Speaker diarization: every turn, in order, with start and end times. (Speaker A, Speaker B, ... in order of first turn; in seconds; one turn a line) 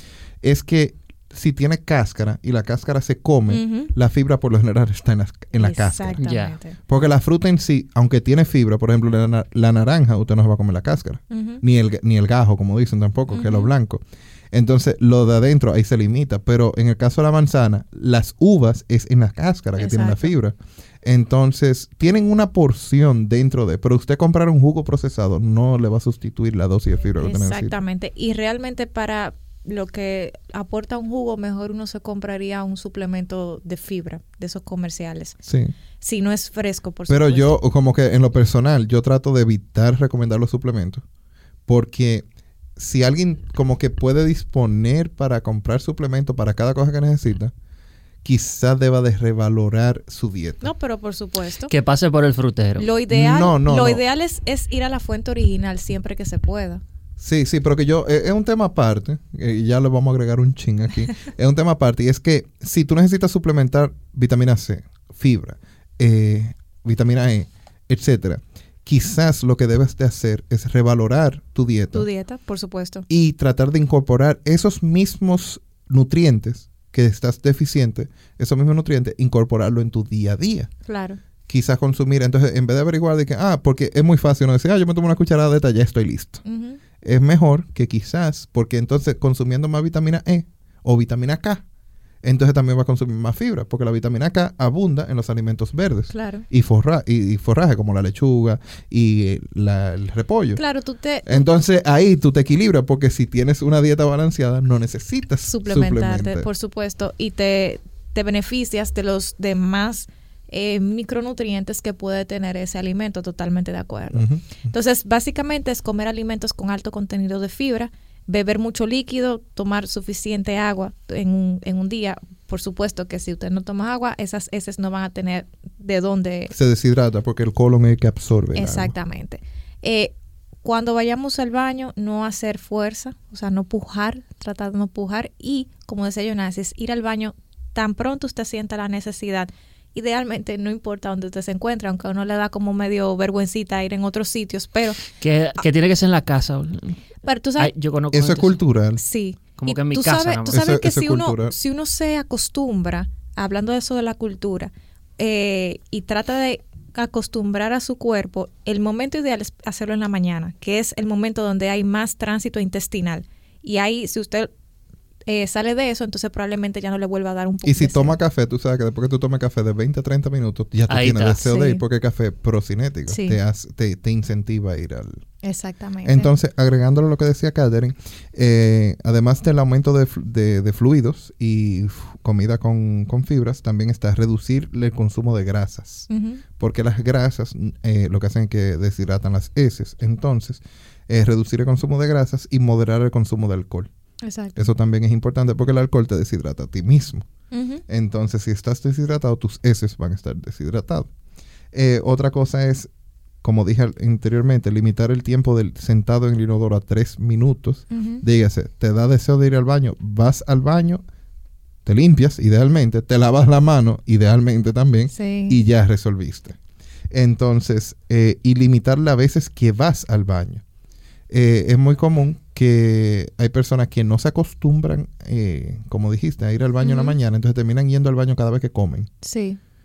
Speaker A: 0.4-6.2
Speaker B: 3.5-3.9
Speaker B: 5.6-6.8
Speaker C: 6.2-6.6
Speaker A: 6.8-27.7
Speaker B: 11.3-11.6
Speaker B: 13.3-13.7
Speaker B: 19.8-20.3
Speaker B: 27.2-35.4
Speaker A: 35.4-35.7
Speaker B: 36.0-37.5
Speaker A: 37.1-41.0
Speaker A: 41.7-42.2
Speaker A: 42.8-47.5
Speaker A: 48.2-50.7
Speaker B: 50.6-51.7
Speaker C: 51.7-52.9
Speaker B: 52.8-56.8
Speaker A: 53.1-54.0
Speaker A: 57.2-72.1
Speaker B: 71.9-73.0
Speaker A: 73.1-80.7
Speaker B: 80.9-81.2
Speaker A: 81.5-86.4
Speaker B: 86.4-86.8
Speaker A: 87.0-91.6
Speaker A: 92.2-100.6
Speaker B: 96.1-96.4
Speaker B: 100.5-101.5
Speaker A: 101.2-106.5
Speaker B: 105.5-126.5
Speaker A: 114.1-114.7
Speaker A: 126.5-128.9
Speaker B: 128.5-145.0
Speaker C: 145.2-147.0
Speaker B: 147.2-147.7
Speaker C: 147.6-148.6
Speaker A: 148.1-149.0
Speaker B: 149.0-164.5
Speaker C: 149.6-150.6
Speaker A: 150.5-151.5
Speaker B: 165.3-168.2
Speaker A: 167.6-175.2
Speaker C: 170.9-171.4
Speaker B: 171.4-171.8
Speaker B: 173.1-173.4
Speaker B: 175.4-176.3
Speaker A: 176.0-193.9
Speaker B: 186.1-186.4
Speaker B: 194.2-194.7
Speaker A: 194.6-197.2
Speaker B: 197.5-197.8
Speaker A: 197.9-201.1
Speaker A: 201.7-202.9
Speaker A: 203.4-211.0
Speaker B: 207.9-208.2
Speaker A: 211.8-216.6
Speaker B: 215.1-215.6
Speaker A: 217.1-220.6
Speaker A: 221.3-229.1
Speaker B: 226.8-227.2
Speaker B: 229.2-229.6